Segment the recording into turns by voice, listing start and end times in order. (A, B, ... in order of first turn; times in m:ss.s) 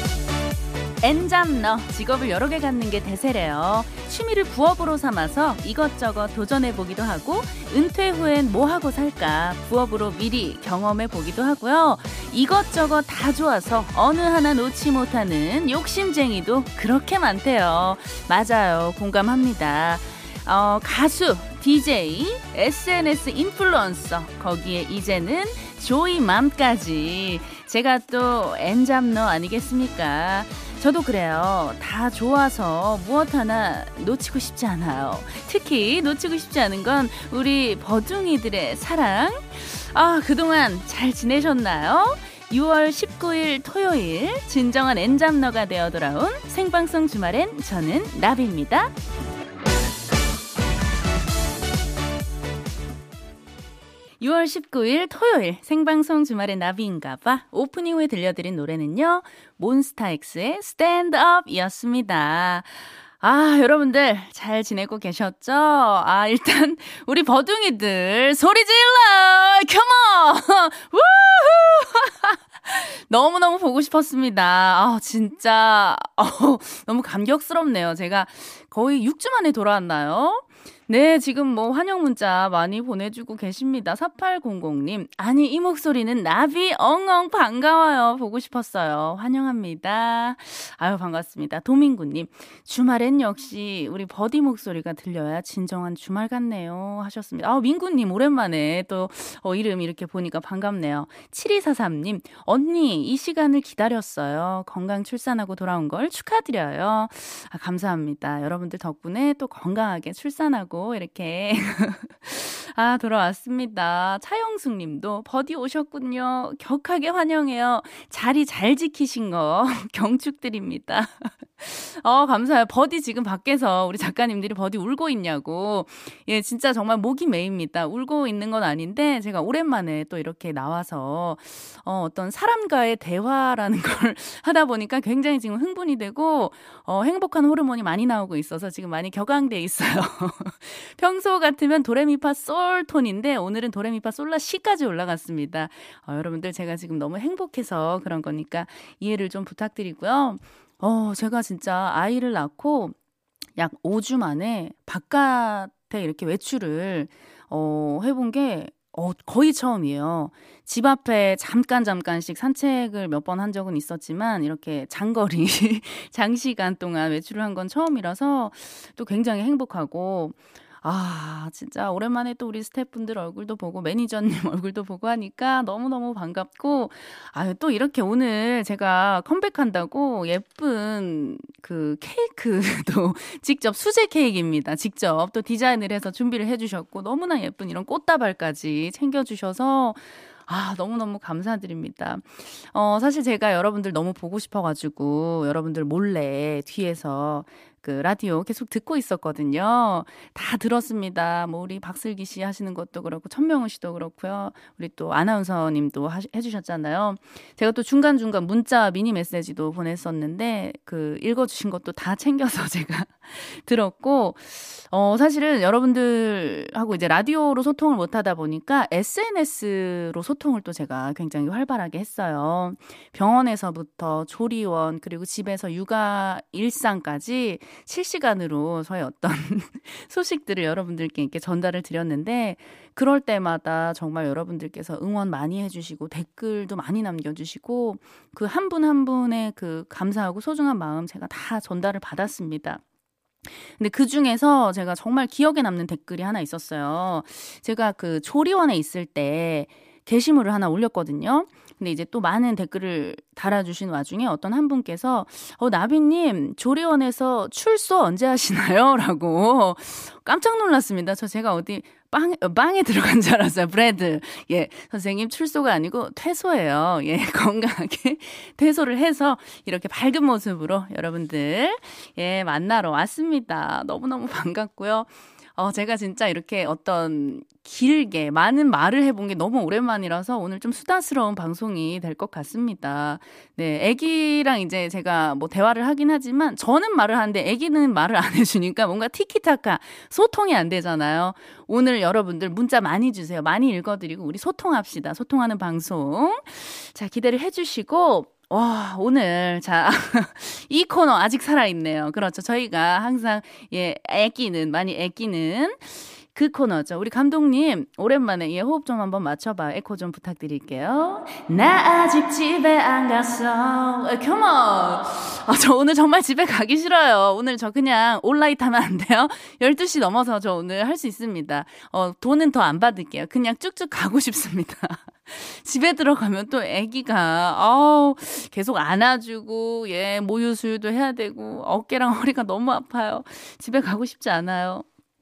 0:01.0-0:48.9 A
0:54.2-2:32.9 A
2:33.6-4:02.8 A
4:03.7-5:34.8 A